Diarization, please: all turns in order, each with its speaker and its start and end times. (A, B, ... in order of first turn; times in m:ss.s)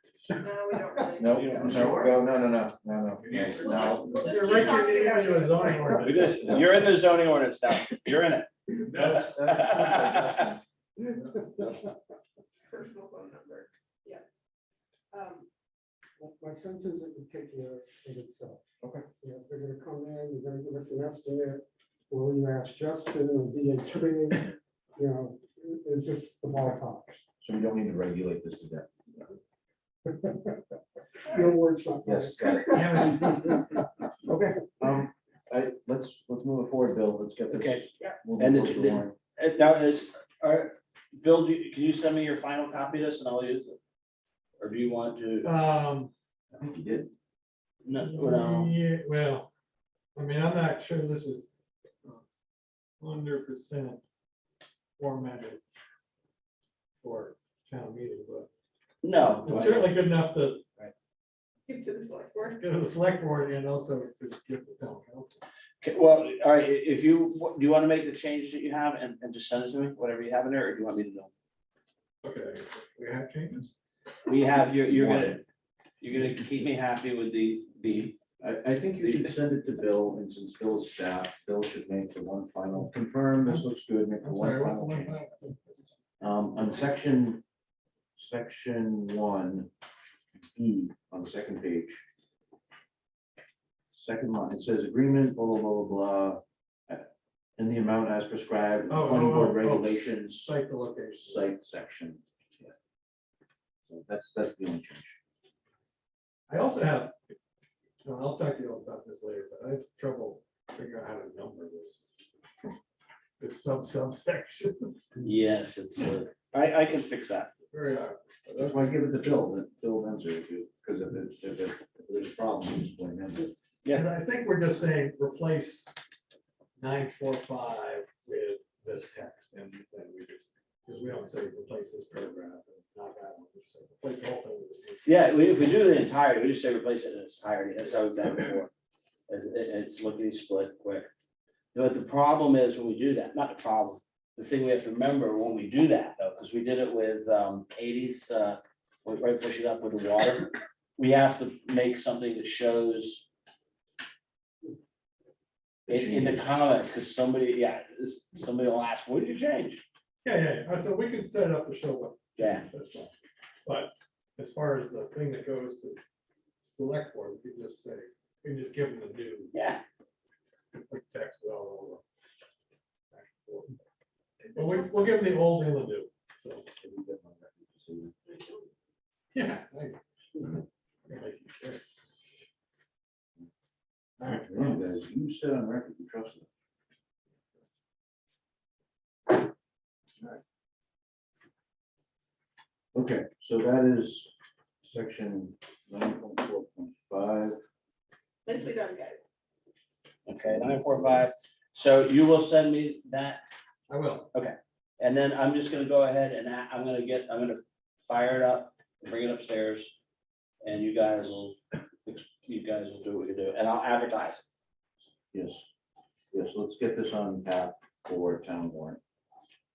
0:00.3-0:02.1 A
0:01.2-0:04.5 B
0:01.2-0:02.1 C
0:03.2-0:06.8 D
0:03.4-0:06.2 A
0:06.0-0:10.6 C
0:08.8-0:10.6 B
0:11.0-0:11.8 E
0:11.6-0:11.9 C
0:12.7-0:14.3 A
0:15.1-0:15.5 A
0:16.2-0:18.6 E
0:19.2-0:27.2 E
0:27.4-0:29.3 B
0:30.0-0:30.6 E
0:31.2-0:34.7 E
0:32.0-0:33.6 B
0:34.8-0:39.2 B
0:37.5-0:37.8 C
0:38.4-0:43.8 C
0:44.6-0:45.5 C
0:45.4-0:46.1 D
0:46.5-0:47.1 B
0:47.8-0:48.8 C
0:48.0-0:49.5 D
0:50.1-0:51.5 D
0:53.0-0:54.0 D
0:55.0-0:55.6 D
0:57.0-0:58.5 D
0:59.0-1:00.0 C
0:59.2-1:00.6 D
1:01.7-1:02.6 A
1:02.6-1:05.4 D
1:05.8-1:11.3 C
1:12.2-1:13.7 D
1:14.2-1:15.4 C
1:16.0-1:18.2 C
1:18.4-1:25.2 B
1:19.0-1:19.3 C
1:24.2-1:26.0 D
1:26.2-1:27.4 B
1:28.2-1:29.7 B
1:30.4-1:32.0 B
1:33.9-1:40.5 B
1:38.9-1:41.5 D
1:41.2-1:42.7 B
1:43.8-1:45.2 B
1:46.5-1:47.3 D
1:48.0-1:52.0 D
1:53.4-1:55.2 D
1:55.2-1:57.5 C
1:57.7-1:59.0 D
1:58.6-2:03.5 B
2:03.9-2:05.9 D
2:06.8-2:15.2 D
2:15.0-2:18.7 C
2:19.3-2:21.1 C
2:21.7-2:33.3 C
2:35.9-2:36.6 B
2:35.9-2:39.8 C
2:40.2-2:43.1 D
2:42.4-2:42.7 C
2:43.6-2:46.0 D
2:46.6-2:49.5 D
2:49.5-2:49.8 C
2:50.7-2:52.0 D
2:53.1-2:53.8 D
2:54.5-2:56.7 D
2:54.5-2:54.8 A
2:56.8-2:58.1 B
2:58.3-2:58.6 A
2:59.3-3:00.4 D
3:01.0-3:01.8 D
3:04.2-3:04.8 D
3:04.2-3:06.5 B
3:12.9-3:14.3 B
3:14.8-3:17.6 B
3:18.4-3:19.2 A
3:20.2-3:23.4 C
3:23.9-3:24.3 D
3:24.3-3:29.9 C
3:30.6-3:34.4 C
3:35.3-3:35.7 B
3:36.3-3:39.0 B